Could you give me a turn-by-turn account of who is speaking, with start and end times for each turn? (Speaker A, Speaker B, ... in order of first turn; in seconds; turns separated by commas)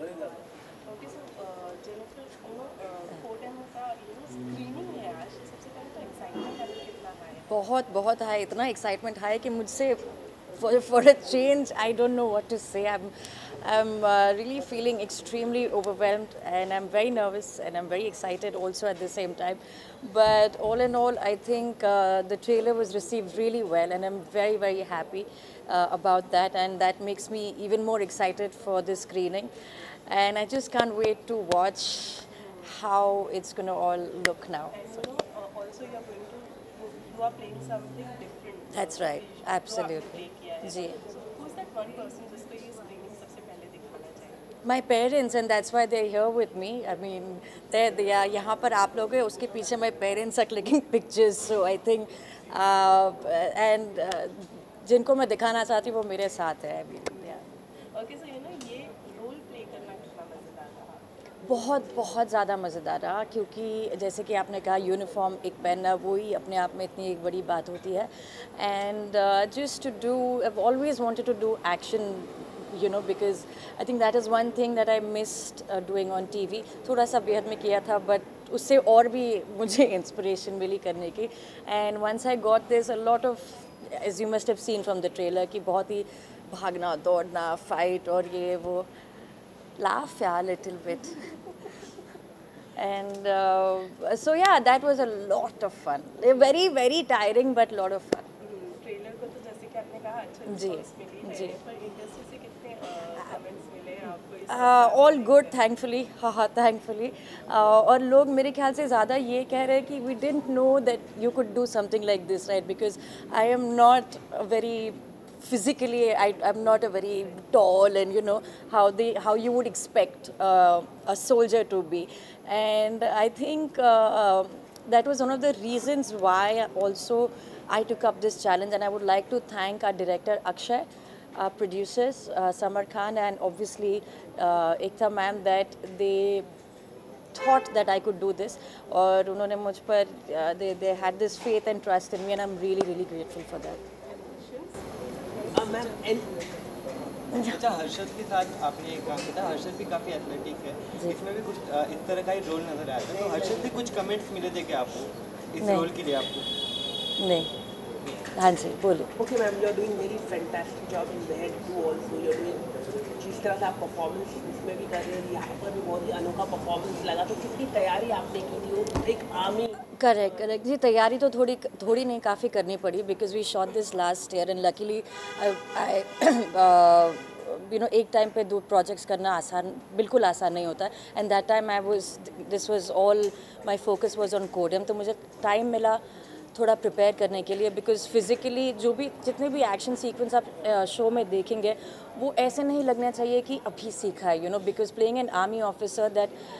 Speaker A: 0.8-7.5, Speaker B: 7.5-29.5, Speaker B: 30.1-34.9, Speaker A: 34.7-44.5, Speaker B: 38.7-41.0, Speaker B: 44.6-57.4, Speaker A: 57.9-61.0, Speaker B: 61.4-88.9, Speaker B: 89.8-91.3, Speaker B: 92.8-98.3, Speaker A: 98.4-105.5, Speaker B: 100.5-101.6, Speaker B: 104.5-136.5, Speaker B: 137.3-143.8, Speaker A: 144.0-146.0, Speaker C: 145.5-146.3, Speaker B: 147.3-147.6, Speaker D: 147.4-156.5, Speaker C: 153.2-153.7, Speaker B: 155.6-155.9, Speaker B: 157.2-157.5, Speaker B: 158.3-159.1, Speaker C: 159.2-162.7, Speaker C: 163.2-169.8, Speaker B: 169.9-186.0, Speaker B: 186.5-196.3